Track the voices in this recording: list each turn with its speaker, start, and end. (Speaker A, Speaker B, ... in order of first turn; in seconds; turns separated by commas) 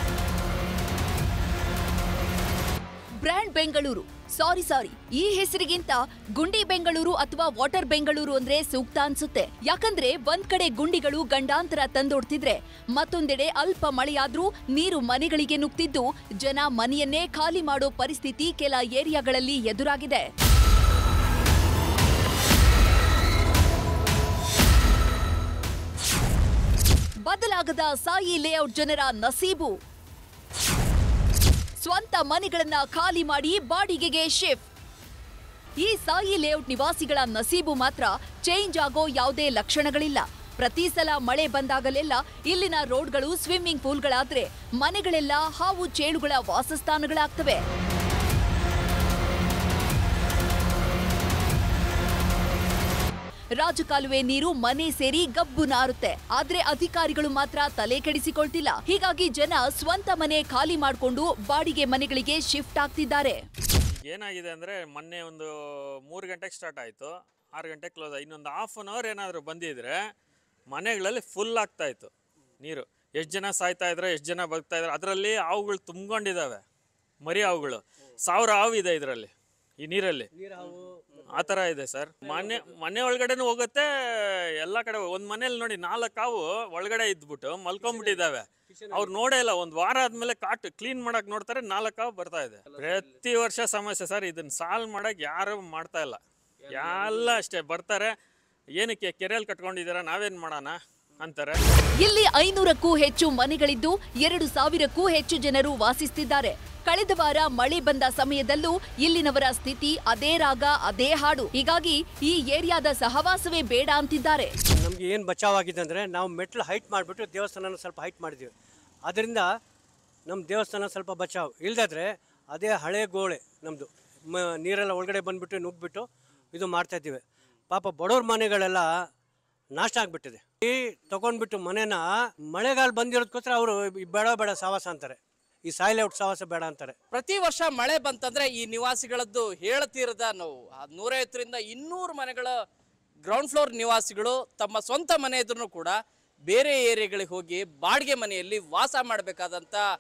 Speaker A: 3.2-20.2, Speaker A: 27.2-29.8, Speaker A: 31.8-34.7, Speaker A: 35.8-47.6, Speaker A: 53.6-63.4, Speaker B: 64.0-65.5, Speaker B: 66.1-70.0, Speaker B: 70.7-76.6, Speaker B: 77.2-80.3, Speaker C: 80.3-81.2, Speaker B: 81.3-98.1, Speaker C: 87.8-88.2, Speaker C: 88.7-89.1, Speaker B: 98.8-101.6, Speaker A: 102.0-114.5, Speaker C: 114.8-118.5, Speaker C: 119.1-119.5, Speaker C: 120.3-128.9, Speaker C: 129.8-136.9, Speaker D: 137.1-142.5, Speaker D: 143.2-146.0, Speaker D: 146.5-149.8